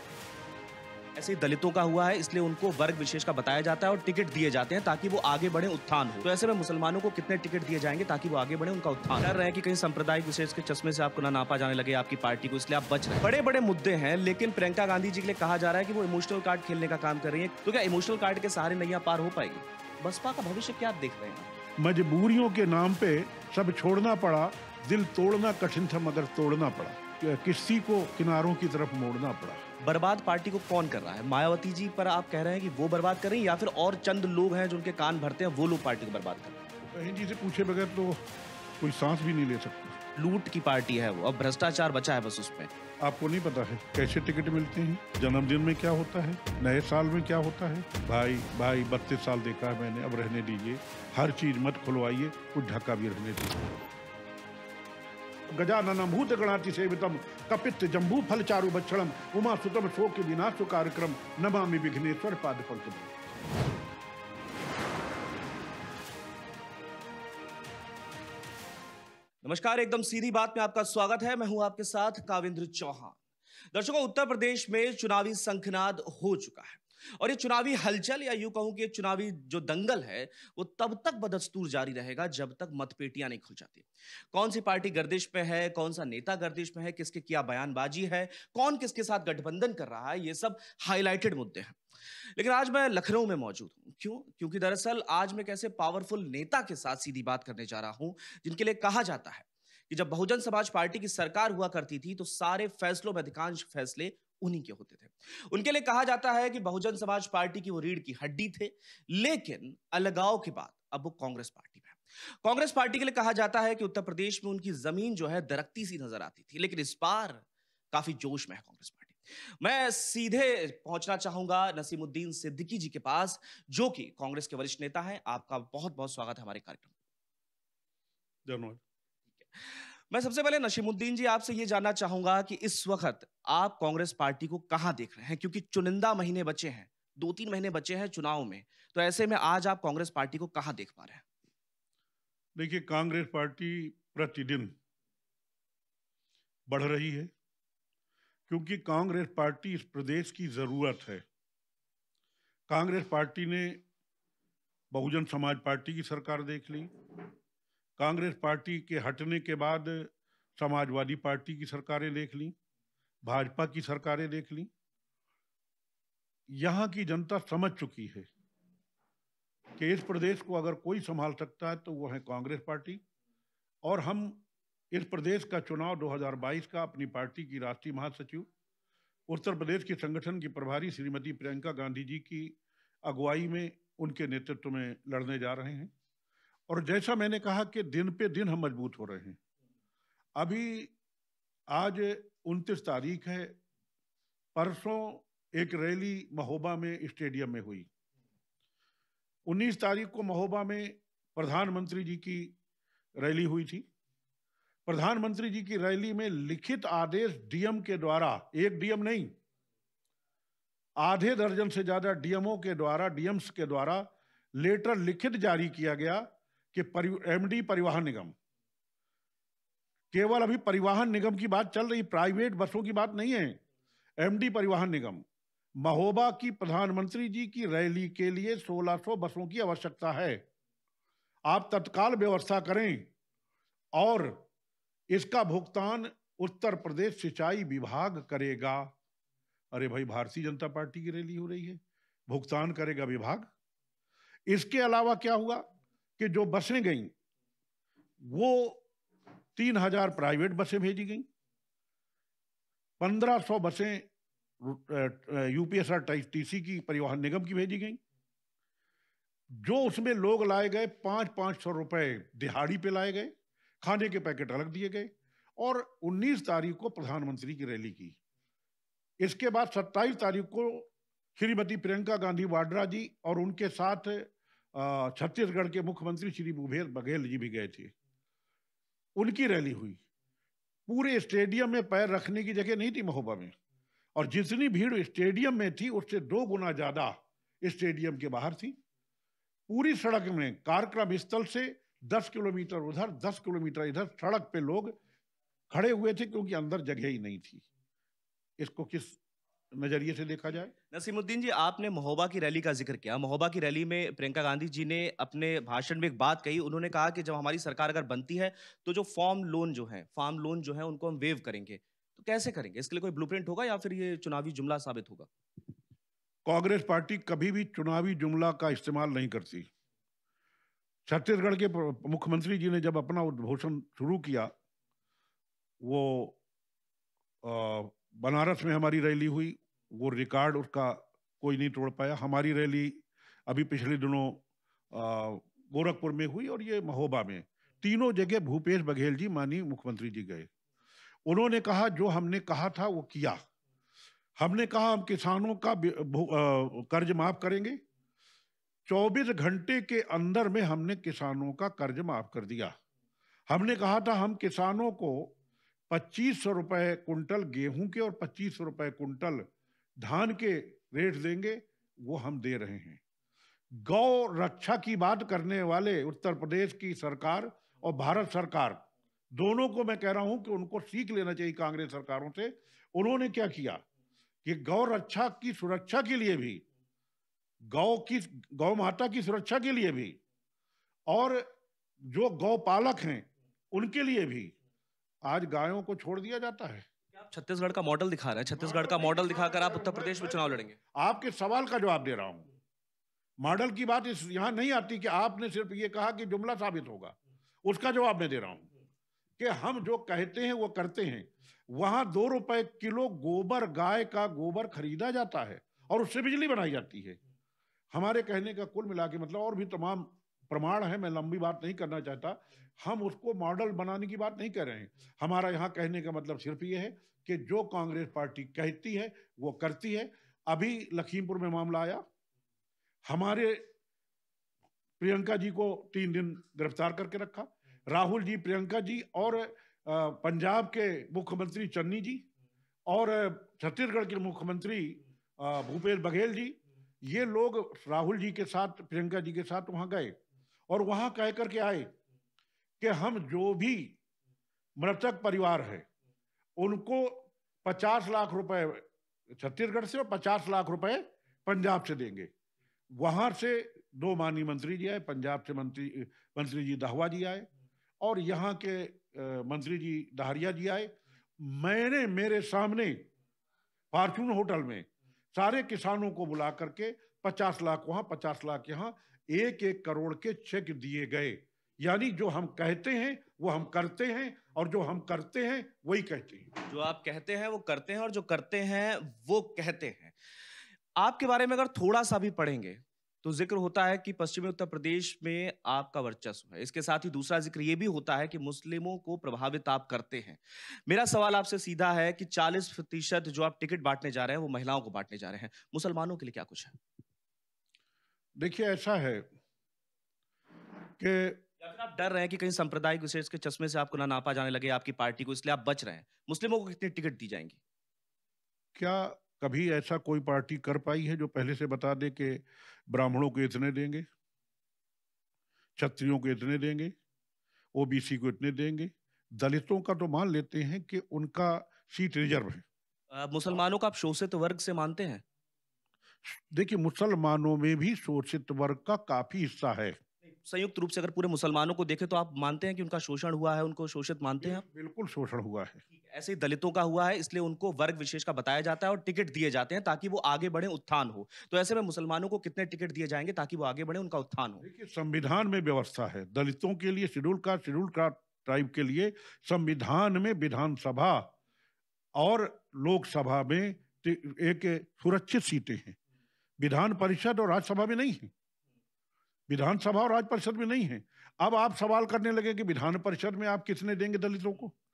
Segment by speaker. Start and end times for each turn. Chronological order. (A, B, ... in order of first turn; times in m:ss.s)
0:01.2-0:21.5 A
0:21.8-0:29.6 B
0:29.8-0:36.6 A
0:36.9-0:38.2 B
0:38.8-0:40.0 B
0:40.2-0:42.7 A
0:43.0-0:53.7 B
0:55.5-1:03.1 B
1:09.4-1:13.2 A
1:13.7-1:31.8 A
1:32.4-2:06.9 A
2:08.4-2:08.8 B
2:09.6-2:21.2 A
2:22.6-2:24.7 B
2:26.7-2:27.3 B
2:28.5-2:31.2 B
2:32.7-2:33.8 B
2:34.9-2:36.9 B
2:38.0-2:42.5 B
2:43.2-2:44.7 B
2:46.5-2:48.3 B
2:49.8-2:53.0 B
2:53.8-2:58.5 B
2:59.3-3:05.9 B
3:06.7-3:09.4 B
3:10.4-3:10.9 B
3:11.7-3:13.6 B
3:14.5-3:17.9 B
3:19.4-3:22.5 B
3:23.2-3:23.9 B
3:24.8-3:29.3 B
3:31.0-3:38.3 B
3:40.1-3:43.6 B
3:44.2-3:45.2 B
3:45.8-3:50.4 B
3:51.5-3:53.1 B
3:54.0-3:54.4 B
3:55.1-3:58.9 B
3:59.7-4:03.5 B
4:04.5-4:05.6 B
4:06.2-4:07.1 B
4:08.2-4:08.8 B
4:09.5-4:11.3 B
4:13.0-4:14.1 B
4:14.6-4:18.0 B
4:19.5-4:28.2 B
4:29.2-4:37.9 B
4:39.2-4:40.0 B
4:40.9-4:43.5 B
4:44.1-4:48.8 B
4:49.7-4:54.9 B
4:55.7-4:57.6 B
4:58.6-4:59.2 B
4:59.7-5:00.7 B
5:00.9-5:15.3 A
5:16.4-5:19.7 B
5:21.0-5:24.5 B
5:25.8-5:26.4 B
5:27.4-5:40.5 B
5:41.2-5:43.4 B
5:44.4-5:47.8 B
5:48.8-5:52.7 B
5:53.5-5:55.4 B
5:55.9-6:03.0 B
6:03.7-6:13.8 B
6:14.4-6:16.6 B
6:17.6-6:20.2 B
6:21.1-6:21.5 B
6:22.0-6:24.5 B
6:25.2-6:26.9 B
6:27.1-6:30.8 A
6:28.6-6:32.5 B
6:33.4-6:38.7 B
6:39.4-6:47.2 B
6:47.9-7:02.0 B
7:03.1-7:03.6 B
7:05.0-7:12.2 B
7:12.9-7:20.2 B
7:20.7-7:21.9 B
7:22.8-7:23.9 B
7:24.8-7:25.8 B
7:26.6-7:32.3 B
7:32.9-7:37.5 B
7:38.0-7:43.1 B
7:43.9-7:56.5 B
7:56.6-8:00.1 A
8:01.0-8:16.8 A
8:18.4-8:19.3 B
8:21.0-8:21.4 B
8:21.6-8:27.6 A
8:28.7-8:34.1 B
8:35.8-8:36.9 B
8:37.7-8:42.6 B
8:43.1-8:45.2 A
8:46.2-8:50.0 B
8:50.4-8:54.6 A
8:54.4-8:55.8 B
8:56.0-9:04.6 A
9:04.6-9:11.3 B
9:12.2-9:16.0 B
9:16.6-9:18.3 B
9:19.5-9:24.7 B